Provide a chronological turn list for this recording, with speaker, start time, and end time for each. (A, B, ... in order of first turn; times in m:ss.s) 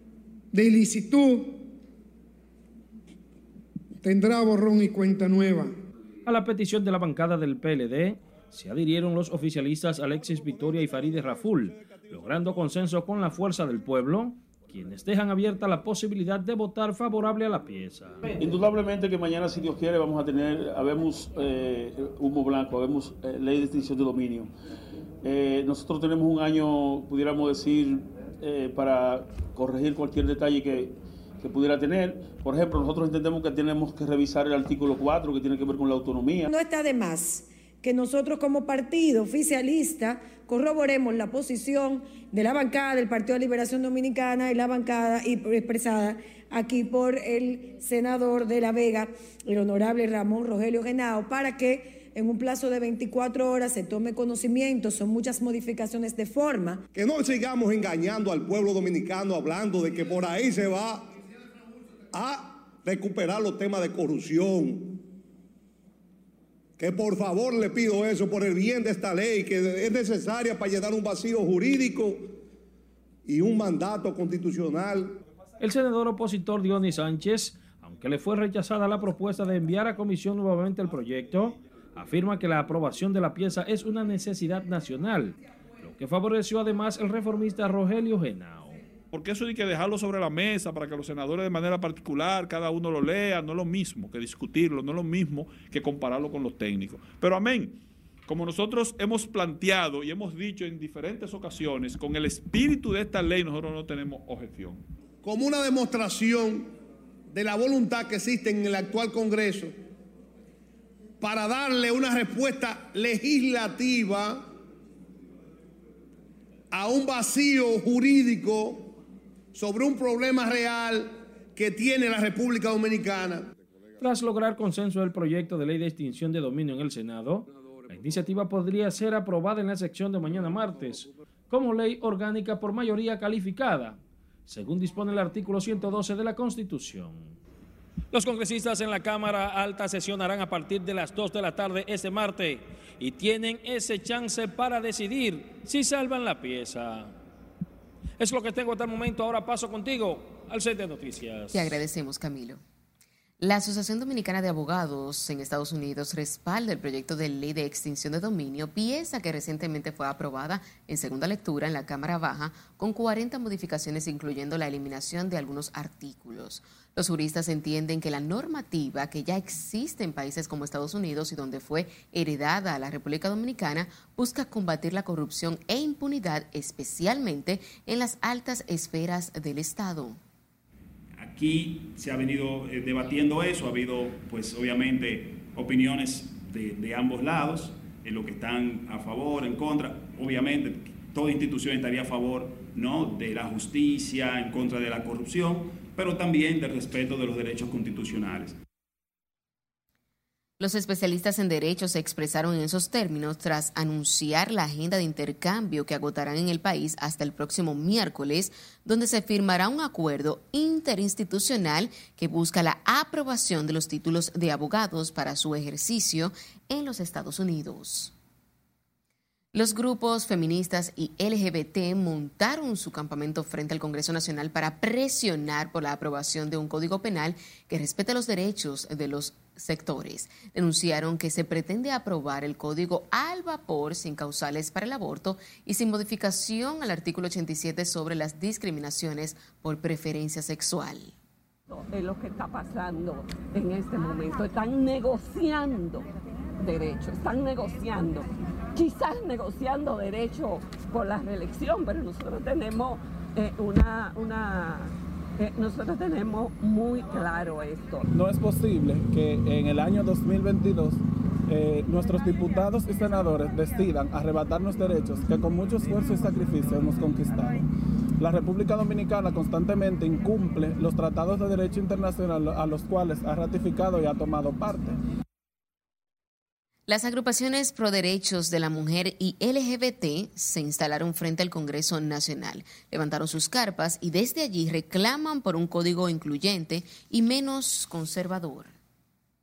0:00.5-0:01.6 A
0:04.0-0:05.7 A
0:06.3-0:18.4 B
0:18.4-0:24.5 C
0:25.2-0:36.5 C
0:36.5-0:56.8 D
0:56.9-1:01.1 E
1:02.1-1:05.0 E
1:06.8-1:12.4 E
1:13.3-1:15.2 E
1:15.6-1:28.8 B
1:29.1-1:44.8 F
1:45.2-1:46.7 E
1:47.3-1:49.8 E
1:51.2-1:54.5 E
1:56.7-1:59.0 E
1:59.5-2:03.5 E
2:04.0-2:17.4 B
2:18.1-2:27.2 B
2:28.2-2:31.8 B
2:31.5-2:32.6 G
2:33.4-3:00.2 G
3:01.2-3:18.6 H
3:20.6-3:38.1 G
3:39.5-4:01.1 G
4:01.7-4:18.1 I
4:18.2-4:27.6 J
4:28.2-4:35.0 J
4:36.9-4:48.7 G